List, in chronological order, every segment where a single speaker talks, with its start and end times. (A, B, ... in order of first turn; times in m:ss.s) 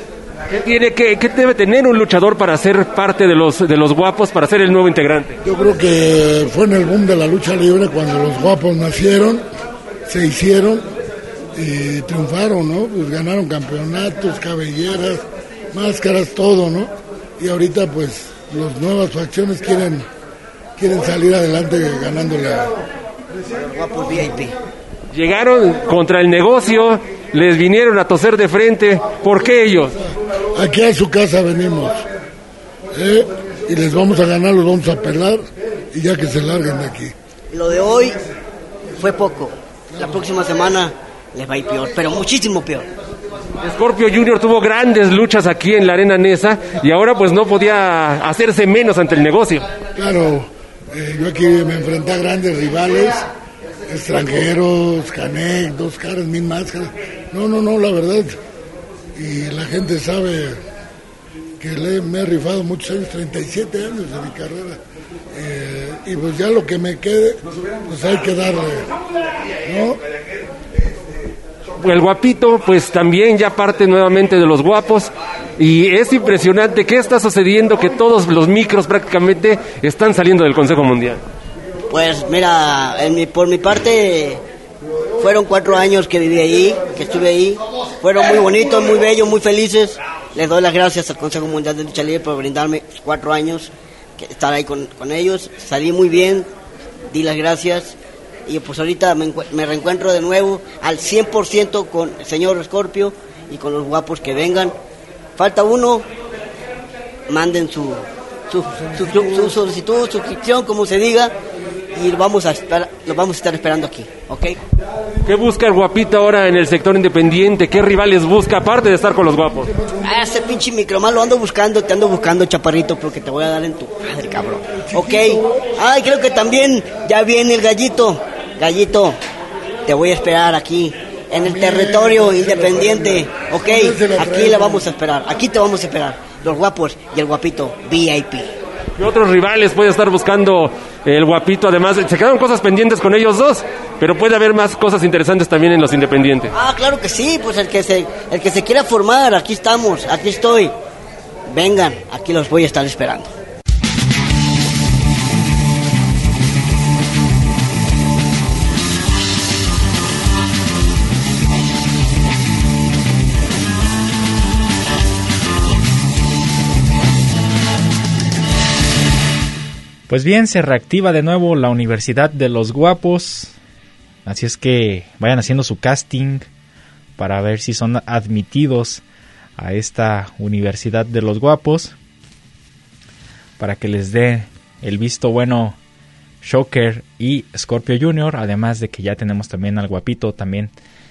0:00.5-0:05.4 A
0:05.4-0:09.4 B
0:10.1-0:10.8 B
0:11.5-0:20.0 B
0:20.8-0:22.7 B
0:23.6-0:24.5 C
0:25.1-0:29.9 A
0:30.5-0:32.0 B
0:32.9-0:37.1 B
0:37.5-0:38.1 C
0:39.0-0:42.8 C
0:43.6-0:49.7 A
0:50.0-0:53.2 B
0:53.9-0:58.3 B
0:59.1-1:00.6 B
1:01.6-1:04.8 B
1:05.3-1:08.9 B
1:09.6-1:10.0 B
1:11.8-1:21.2 A
1:21.9-1:24.4 C
1:25.2-1:36.4 C
1:37.1-1:37.9 C
1:38.5-1:44.7 C
1:45.4-1:46.0 C
1:47.3-1:51.3 C
1:51.9-1:54.5 C
1:55.2-1:59.7 A
2:00.0-2:09.2 C
2:04.9-2:05.4 B
2:09.8-2:18.4 C
2:11.4-2:14.8 B
2:19.0-2:26.5 A
2:26.5-2:30.7 C
2:31.5-2:33.3 C
2:50.1-2:53.6 D
2:54.2-2:56.5 D
2:57.2-2:59.0 D
2:59.6-3:02.0 D
3:03.6-3:05.8 D
3:06.4-3:10.7 D